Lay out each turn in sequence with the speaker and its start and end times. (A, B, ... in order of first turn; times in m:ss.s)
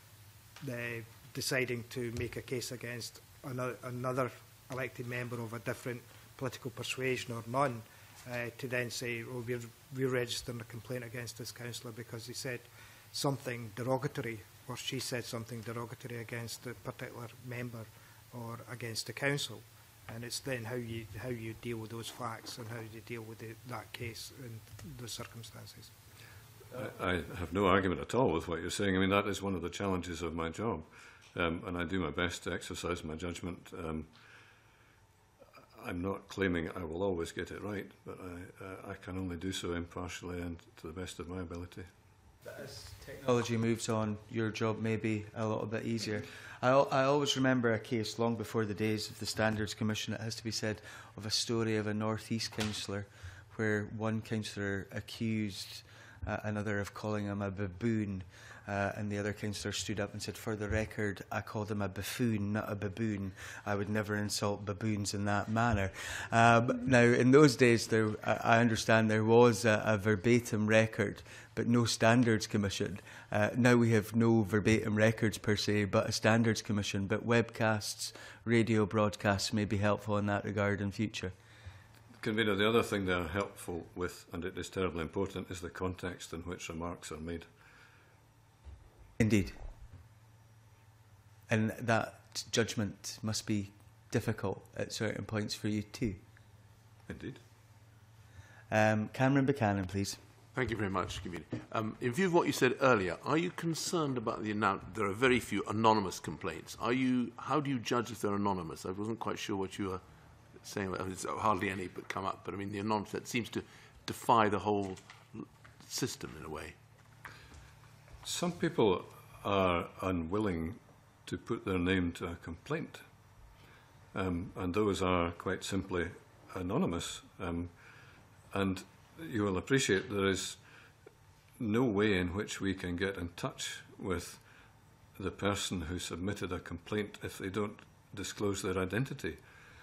0:00.6-0:25.9 A
0:26.7-0:34.6 B
0:35.8-0:41.9 B
0:42.4-1:21.3 C
1:22.2-1:27.5 B
1:29.2-1:29.6 C
1:31.5-1:36.2 C
1:37.1-1:37.4 B
1:38.7-1:40.2 C
1:40.5-1:56.8 D
1:58.2-2:03.1 B
2:04.1-2:10.8 B
2:11.6-2:19.6 B